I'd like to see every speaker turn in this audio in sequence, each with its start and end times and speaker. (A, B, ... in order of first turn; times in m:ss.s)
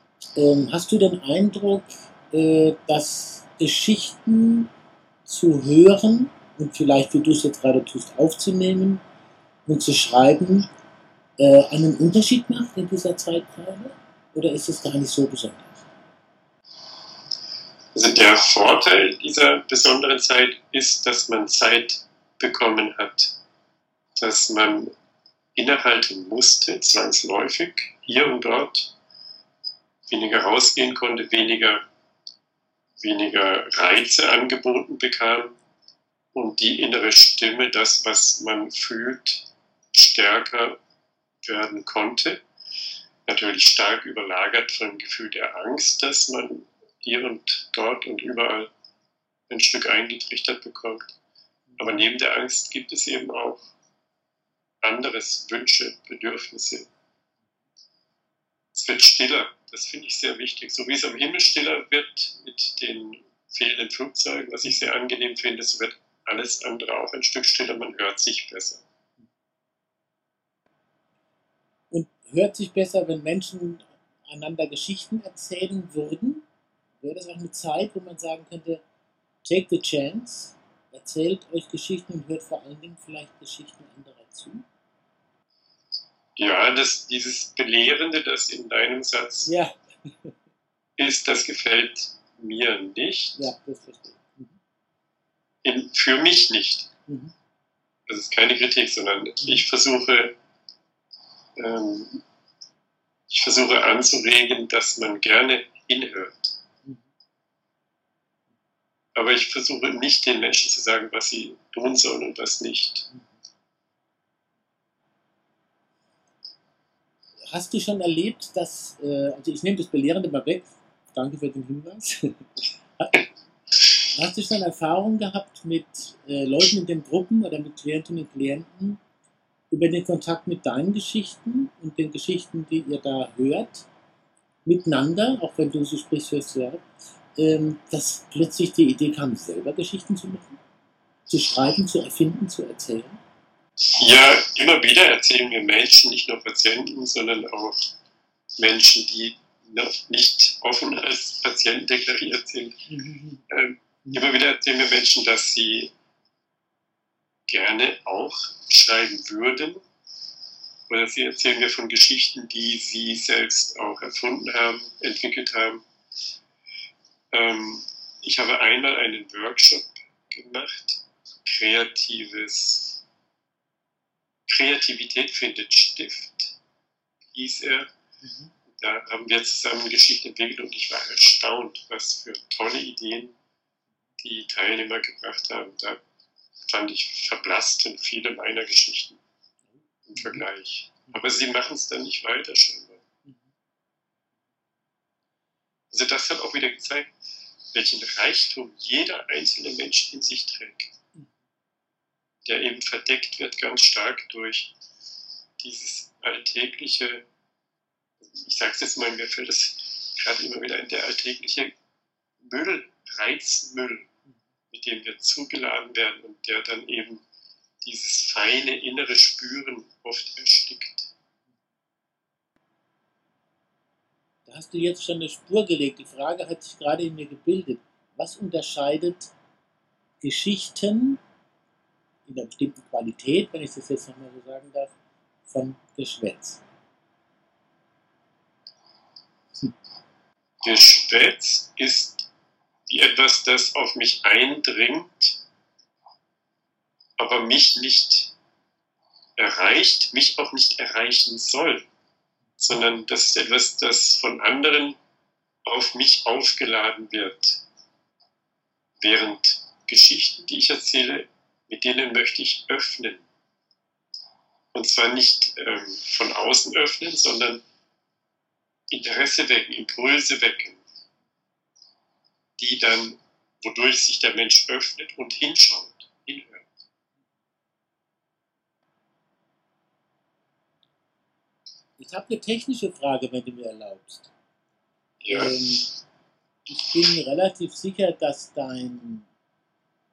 0:00.4-0:04.7 A
0:05.2-0:09.0 A
0:09.6-0:10.7 A
0:11.4-0:15.8 A
0:17.9-0:23.3 B
0:24.2-0:24.9 B
0:25.6-0:28.9 B
0:30.1-0:31.8 B
0:33.0-0:35.6 B
0:36.3-0:40.8 B
0:41.4-0:42.4 B
0:43.2-0:48.7 B
0:49.5-0:51.1 B
0:51.7-0:52.0 A
0:51.8-0:53.6 B
0:54.8-0:56.9 B
0:58.7-1:08.8 B
1:04.6-1:04.9 A
1:11.9-1:16.4 A
1:17.0-1:18.8 A
1:19.4-1:24.6 A
1:26.4-1:29.5 B
1:29.4-1:30.3 A
1:31.0-1:33.5 B
1:33.4-1:34.6 A
1:35.6-1:36.9 B
1:37.1-1:37.3 A
1:38.1-1:40.3 B
1:41.6-1:42.2 B
1:43.3-1:46.5 B
1:49.1-1:53.1 B
1:57.5-2:02.5 A
2:04.1-2:09.0 A
2:09.7-2:13.9 A
2:14.6-2:16.8 A
2:17.4-2:20.6 A
2:21.3-2:23.2 A
2:23.9-2:27.9 B
2:28.6-2:32.8 B
2:32.9-2:33.4 A
2:33.5-2:35.9 B
2:37.5-2:39.8 B
2:40.9-2:45.8 B
2:47.3-2:53.0 B
2:54.5-2:56.6 B
2:57.3-2:57.9 B
2:58.2-2:58.5 A
2:58.7-3:03.4 B
3:04.2-3:06.0 B
3:06.7-3:09.2 B
3:10.0-3:13.0 B
3:10.2-3:10.4 A
3:15.9-3:17.1 B
3:17.7-3:20.9 B
3:22.4-3:24.7 B
3:25.6-3:27.2 B
3:28.2-3:31.7 B
3:32.4-3:34.1 B
3:34.7-3:37.2 B
3:37.8-3:41.1 B
3:44.5-3:49.3 A
3:50.2-3:51.2 A
3:52.2-3:54.9 A
3:55.5-3:56.6 A
4:00.6-4:02.3 B
4:02.9-4:05.4 B
4:07.2-4:08.3 B
4:09.4-4:11.9 B
4:12.6-4:15.0 B
4:15.6-4:17.6 B
4:19.0-4:23.2 B
4:24.7-4:27.6 B
4:28.9-4:30.8 B
4:32.6-4:36.6 B
4:42.0-4:44.3 A
4:45.2-4:45.6 B
4:45.3-4:45.9 A
4:46.7-4:49.3 A